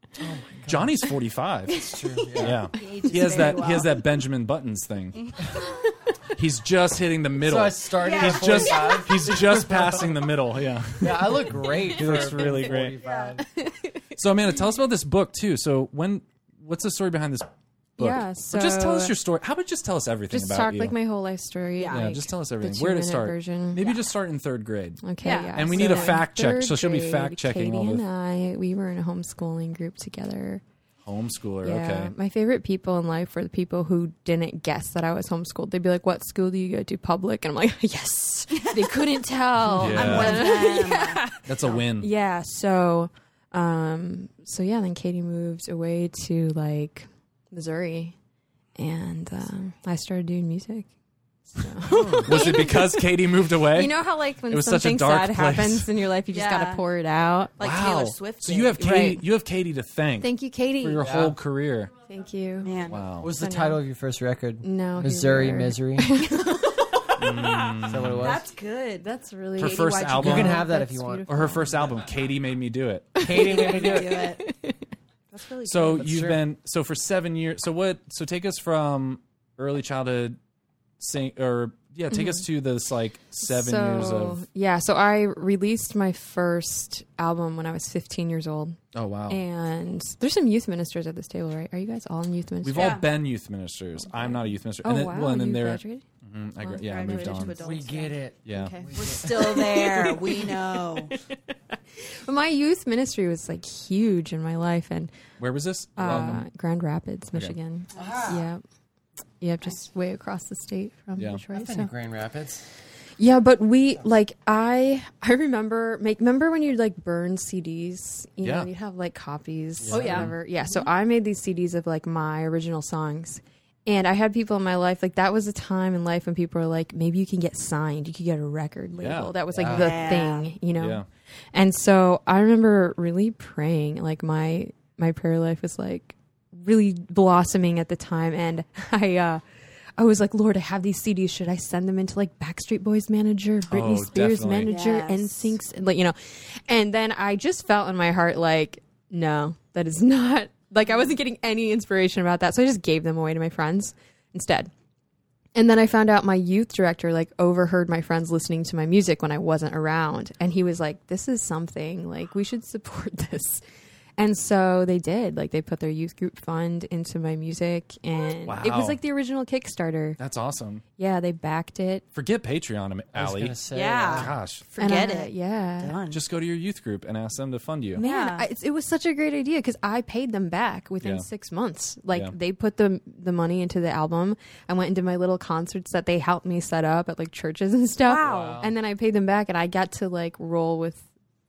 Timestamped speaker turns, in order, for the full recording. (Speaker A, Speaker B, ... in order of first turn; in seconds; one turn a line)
Speaker A: 0.2-1.0
Speaker B: 0.7-5.4
Speaker A: 1.7-2.7
Speaker C: 2.7-4.1
Speaker B: 6.3-13.0
Speaker A: 7.4-10.1
Speaker C: 8.0-9.1
Speaker A: 11.0-13.5
Speaker C: 13.0-13.4
Speaker D: 13.6-13.9
Speaker B: 14.2-20.9
Speaker D: 18.0-19.1
Speaker D: 20.3-24.0
Speaker C: 21.8-22.1
Speaker B: 21.9-28.0
Speaker D: 25.0-30.6
Speaker C: 25.2-26.2
Speaker B: 31.1-32.1
Speaker D: 31.6-48.1
Speaker C: 39.7-41.3
Speaker B: 39.8-40.7
Speaker B: 41.5-42.1
Speaker D: 48.8-50.9
Speaker D: 51.5-57.6
Speaker A: 51.9-52.2
Speaker B: 52.1-55.9
Speaker C: 56.3-56.9
Speaker C: 57.6-58.8
Speaker B: 57.6-61.9
Speaker D: 58.8-59.2
Speaker D: 60.2-61.1
Speaker A: 61.0-61.4
Speaker D: 62.1-63.8
Speaker C: 62.6-63.0
Speaker B: 62.9-63.3
Speaker A: 63.2-66.2
Speaker D: 64.6-66.7
Speaker C: 66.5-67.5
Speaker B: 67.2-68.4
Speaker A: 67.8-68.5
Speaker C: 68.2-69.1
Speaker D: 69.0-71.8
Speaker B: 69.6-70.7
Speaker C: 69.6-70.7
Speaker A: 70.2-71.6
Speaker B: 71.3-73.8
Speaker D: 73.2-74.8
Speaker A: 73.2-74.3
Speaker C: 73.3-74.4
Speaker C: 75.3-76.1
Speaker B: 75.7-80.4
Speaker A: 76.0-76.4
Speaker B: 81.0-84.4
Speaker D: 82.1-82.5
Speaker D: 83.4-93.1
Speaker B: 88.9-89.4
Speaker B: 92.6-97.6
Speaker C: 92.7-93.1
Speaker D: 94.1-96.0
Speaker D: 96.6-97.5
Speaker C: 96.8-98.2
Speaker A: 97.6-99.8
Speaker B: 98.5-98.8
Speaker D: 98.5-98.9
Speaker C: 98.9-101.1
Speaker D: 99.4-105.1
Speaker B: 105.4-106.5
Speaker D: 106.0-108.6
Speaker B: 107.3-107.6
Speaker A: 108.0-108.4
Speaker D: 109.4-111.9
Speaker B: 111.2-111.4
Speaker A: 111.5-112.7
Speaker D: 113.2-139.4
Speaker B: 118.4-118.7
Speaker A: 119.8-120.3
Speaker C: 119.9-120.8
Speaker B: 129.0-129.3
Speaker A: 129.5-130.1
Speaker C: 129.7-130.5
Speaker B: 130.8-131.1
Speaker D: 140.0-154.7
Speaker B: 143.7-144.7
Speaker C: 144.7-145.6
Speaker D: 155.6-163.6
Speaker D: 164.2-170.2
Speaker B: 168.4-169.0
Speaker B: 170.2-170.8
Speaker D: 171.0-172.0
Speaker B: 172.1-173.6
Speaker A: 173.1-174.3
Speaker C: 173.7-176.2
Speaker B: 174.1-174.6
Speaker D: 174.8-175.9
Speaker B: 176.1-178.0
Speaker C: 178.0-178.5
Speaker D: 178.0-191.1
Speaker B: 181.0-181.3
Speaker C: 188.0-188.6
Speaker B: 188.2-188.7